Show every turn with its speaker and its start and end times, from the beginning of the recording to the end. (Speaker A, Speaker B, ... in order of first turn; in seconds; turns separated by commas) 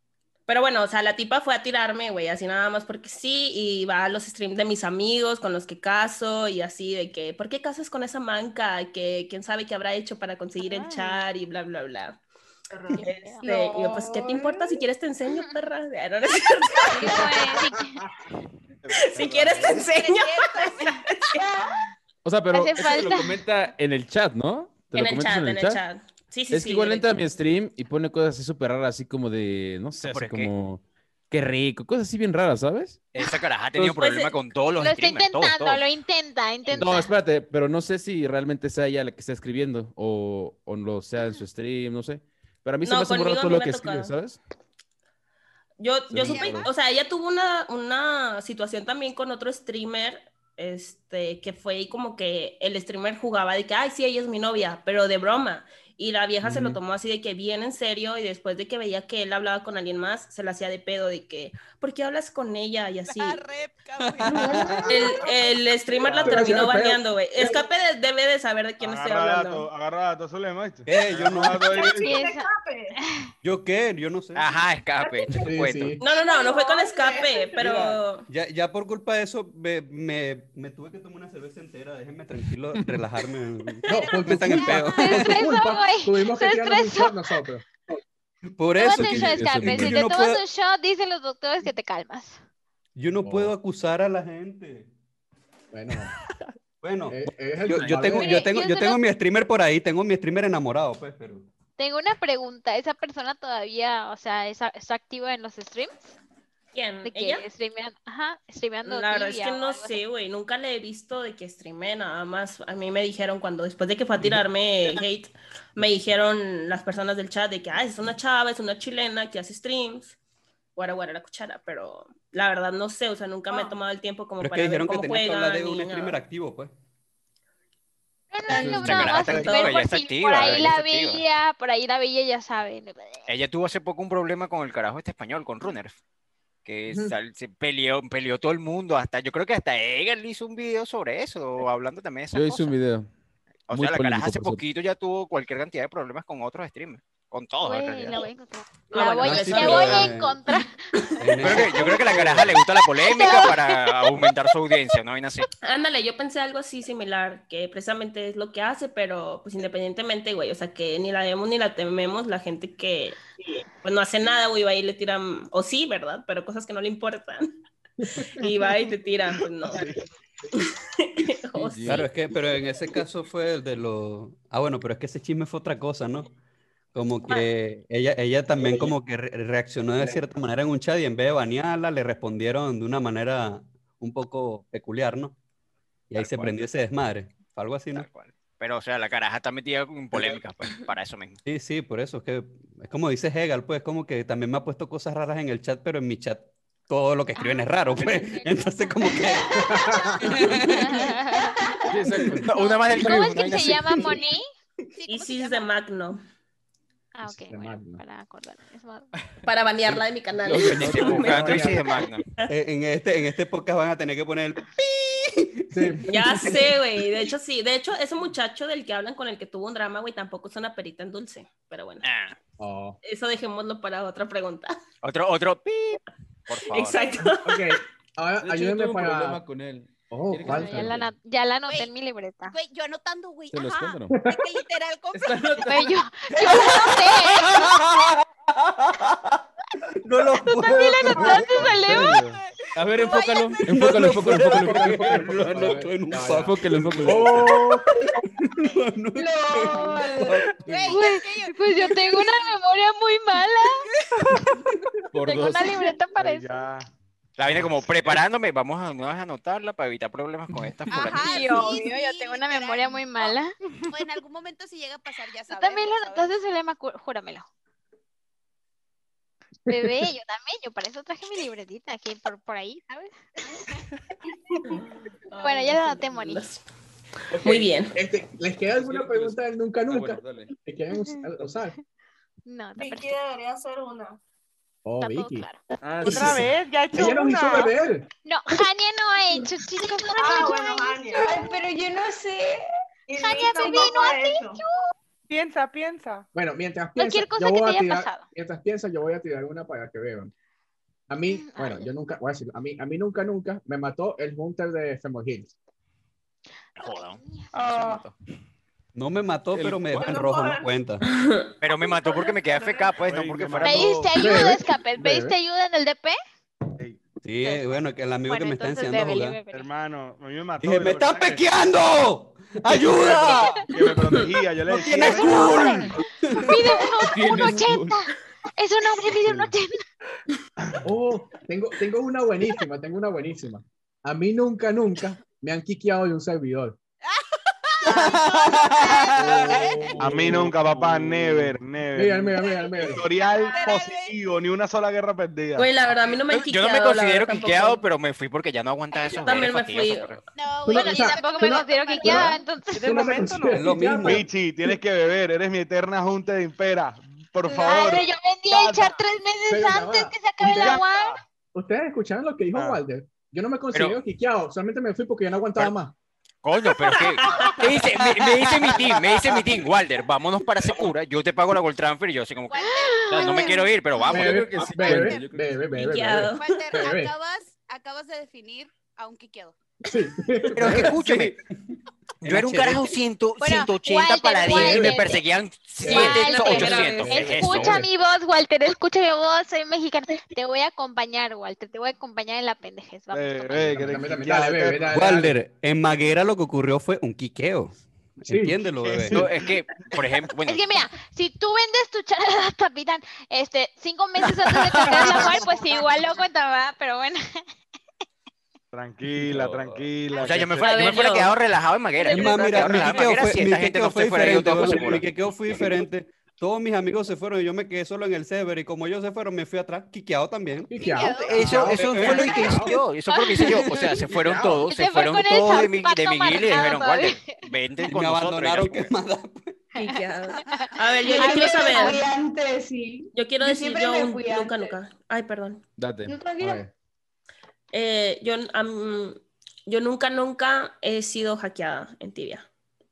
Speaker A: 0.5-12.2, Speaker B: 10.6-11.2, Speaker B: 12.9-13.4, Speaker A: 13.0-17.3, Speaker C: 13.4-14.5, Speaker B: 16.9-18.0, Speaker D: 18.8-19.9, Speaker A: 19.0-21.4, Speaker E: 19.6-21.0, Speaker C: 21.4-21.7, Speaker F: 22.2-25.8, Speaker B: 22.5-23.4, Speaker A: 24.9-27.1, Speaker F: 26.5-33.0, Speaker G: 30.0-30.5, Speaker G: 33.1-35.8, Speaker A: 33.8-34.4, Speaker B: 34.8-37.1, Speaker F: 36.7-44.4, Speaker A: 42.8-44.1, Speaker A: 45.8-63.4, Speaker F: 46.1-46.7, Speaker E: 46.2-46.7, Speaker H: 56.4-56.8, Speaker E: 63.0-65.5, Speaker I: 64.0-65.0, Speaker C: 64.2-64.9, Speaker A: 64.8-69.7, Speaker D: 66.0-66.6, Speaker H: 66.2-67.0, Speaker D: 68.8-72.2, Speaker I: 70.8-72.0, Speaker J: 71.7-73.0, Speaker B: 71.8-73.3, Speaker I: 73.4-74.5, Speaker G: 74.3-76.0, Speaker J: 75.0-75.5, Speaker H: 75.5-76.0, Speaker A: 76.0-78.2, Speaker J: 76.1-77.8, Speaker F: 77.6-77.9, Speaker I: 78.3-85.4, Speaker H: 83.9-87.6, Speaker B: 85.0-87.2, Speaker I: 88.5-90.4, Speaker B: 88.8-92.4, Speaker F: 88.9-90.0, Speaker I: 93.0-94.9, Speaker H: 93.2-93.5, Speaker H: 95.7-96.1, Speaker I: 96.8-101.4, Speaker H: 97.1-98.5, Speaker B: 98.2-99.0, Speaker B: 101.8-106.2, Speaker A: 106.7-107.4, Speaker B: 107.0-110.0, Speaker A: 108.8-120.2, Speaker A: 120.8-126.2, Speaker J: 123.5-123.7, Speaker I: 124.4-126.7, Speaker B: 128.3-133.3, Speaker F: 128.5-129.2, Speaker G: 128.7-131.2, Speaker G: 133.3-136.0, Speaker G: 136.6-142.7, Speaker H: 136.9-137.1, Speaker F: 142.3-143.1, Speaker G: 143.7-148.2, Speaker F: 143.7-144.6, Speaker B: 147.6-150.8, Speaker A: 148.9-150.1, Speaker I: 149.2-150.6, Speaker I: 151.2-152.6, Speaker G: 151.4-155.4, Speaker B: 151.5-151.9, Speaker B: 153.0-154.1, Speaker A: 155.6-163.2, Speaker A: 163.8-167.5, Speaker H: 168.0-168.3, Speaker A: 168.3-169.9, Speaker A: 170.6-172.0, Speaker F: 171.6-172.1, Speaker I: 171.9-176.3, Speaker I: 176.9-185.4, Speaker H: 178.6-178.9, Speaker I: 186.1-188.1, Speaker G: 187.9-191.4, Speaker I: 191.4-201.1, Speaker B: 197.3-198.9, Speaker H: 199.5-200.7, Speaker B: 200.5-201.7, Speaker F: 201.9-202.4, Speaker H: 202.1-202.5, Speaker G: 202.4-203.9, Speaker B: 202.5-204.4, Speaker H: 203.0-204.2, Speaker E: 205.0-205.7, Speaker A: 205.1-206.2, Speaker B: 207.1-209.1, Speaker H: 207.2-208.0, Speaker A: 209.4-212.5, Speaker F: 210.3-211.6, Speaker I: 210.6-211.5, Speaker G: 210.8-212.2, Speaker H: 211.0-212.0, Speaker I: 212.4-216.6, Speaker H: 215.7-216.1, Speaker A: 216.1-222.0, Speaker G: 222.0-222.4, Speaker H: 222.6-223.0, Speaker A: 223.0-224.8, Speaker G: 225.0-227.0, Speaker A: 226.7-227.7, Speaker H: 227.4-229.4, Speaker F: 228.4-231.1, Speaker H: 230.1-231.0, Speaker B: 230.4-232.6, Speaker E: 231.7-231.9, Speaker E: 232.4-235.8, Speaker F: 233.5-234.2, Speaker H: 234.1-234.4, Speaker F: 235.1-235.9, Speaker B: 235.6-237.7, Speaker I: 237.4-239.4, Speaker I: 240.0-242.0, Speaker B: 240.5-242.2, Speaker F: 241.4-242.1, Speaker D: 241.9-242.4, Speaker F: 242.7-245.7, Speaker E: 242.9-243.9, Speaker I: 243.7-250.5, Speaker H: 244.0-247.9, Speaker F: 246.3-247.4, Speaker C: 249.2-250.4, Speaker E: 250.6-252.5, Speaker B: 250.9-253.8, Speaker F: 255.1-255.7, Speaker B: 255.3-256.6, Speaker D: 256.1-256.9, Speaker G: 257.4-261.3, Speaker D: 257.6-258.2, Speaker E: 260.9-263.3, Speaker B: 261.2-263.5, Speaker E: 263.9-266.3, Speaker B: 265.5-267.4, Speaker B: 269.7-273.1, Speaker A: 274.7-276.6, Speaker B: 275.4-276.5, Speaker A: 277.3-277.9, Speaker H: 277.9-281.7, Speaker F: 278.7-280.5, Speaker B: 282.4-283.1, Speaker J: 282.8-284.2, Speaker H: 284.8-285.4, Speaker B: 285.0-285.6, Speaker F: 285.8-286.4, Speaker K: 286.0-287.7, Speaker H: 286.0-288.1, Speaker B: 288.2-291.4, Speaker J: 290.1-291.5, Speaker C: 291.2-292.6, Speaker J: 293.1-294.6, Speaker B: 293.1-294.7, Speaker C: 293.6-294.0, Speaker K: 295.3-296.2, Speaker H: 296.3-300.3, Speaker B: 297.0-298.2, Speaker H: 301.1-305.5, Speaker B: 301.3-301.9, Speaker G: 306.8-308.1, Speaker B: 306.8-307.5, Speaker C: 307.5-308.1, Speaker I: 308.9-311.0, Speaker D: 309.6-309.9, Speaker J: 310.0-310.8, Speaker A: 311.0-311.5, Speaker G: 311.6-314.0, Speaker J: 312.1-312.9, Speaker D: 313.1-314.4, Speaker B: 313.6-316.2, Speaker H: 314.1-315.4, Speaker I: 317.2-319.4, Speaker B: 318.2-319.7, Speaker D: 319.5-321.4, Speaker I: 320.6-323.6, Speaker D: 322.8-325.8, Speaker B: 323.2-323.5, Speaker A: 323.9-324.2, Speaker I: 324.7-326.4, Speaker B: 324.8-329.8, Speaker F: 327.0-328.0, Speaker D: 329.2-329.5, Speaker H: 330.8-336.8, Speaker E: 337.0-339.9, Speaker I: 337.9-339.7, Speaker H: 339.2-340.5, Speaker F: 339.8-341.6, Speaker D: 340.0-346.1, Speaker H: 341.9-343.1, Speaker E: 342.4-344.2, Speaker A: 345.6-347.8, Speaker G: 346.3-350.2, Speaker A: 349.2-350.2, Speaker E: 350.3-352.2, Speaker H: 350.6-354.3, Speaker B: 350.7-353.1, Speaker K: 352.7-353.7, Speaker I: 353.5-354.2, Speaker D: 354.0-359.0, Speaker B: 357.5-361.2, Speaker H: 359.5-360.8, Speaker D: 360.5-361.2, Speaker H: 361.5-365.9, Speaker D: 362.5-362.8, Speaker G: 363.7-364.0, Speaker G: 366.4-374.4, Speaker A: 366.9-367.6, Speaker I: 367.9-369.1, Speaker E: 372.5-373.7, Speaker B: 372.5-373.7, Speaker H: 374.1-377.1, Speaker F: 374.1-375.7, Speaker E: 374.5-375.3, Speaker A: 375.7-376.7, Speaker E: 376.3-379.6, Speaker H: 379.8-380.9, Speaker G: 380.5-381.4, Speaker I: 380.7-381.4, Speaker G: 382.2-387.8, Speaker I: 382.2-382.9, Speaker B: 383.4-385.2, Speaker H: 384.4-385.1, Speaker H: 385.8-387.9, Speaker B: 385.8-393.7, Speaker A: 385.9-387.2, Speaker D: 393.1-395.0, Speaker H: 393.6-395.4, Speaker I: 394.9-399.2, Speaker H: 398.2-398.6, Speaker D: 398.8-400.1, Speaker G: 399.1-400.6, Speaker B: 400.4-407.4, Speaker G: 404.8-405.3, Speaker C: 405.1-405.4, Speaker D: 408.7-411.2, Speaker F: 409.1-410.2, Speaker E: 410.1-410.6, Speaker G: 410.2-415.1, Speaker B: 410.6-411.3, Speaker E: 412.0-412.9, Speaker I: 412.1-420.7, Speaker B: 412.2-412.5, Speaker E: 420.7-422.1, Speaker H: 420.7-422.8, Speaker G: 421.1-428.9, Speaker I: 421.6-422.7, Speaker B: 423.1-423.6, Speaker I: 423.4-424.0, Speaker H: 424.1-424.6, Speaker B: 424.6-427.4, Speaker I: 427.9-429.6, Speaker A: 429.8-432.0, Speaker E: 430.4-430.7, Speaker B: 430.5-432.0, Speaker C: 431.0-434.7, Speaker A: 433.1-435.6, Speaker F: 435.8-436.1, Speaker C: 436.1-436.6, Speaker H: 436.4-436.7, Speaker A: 437.7-442.5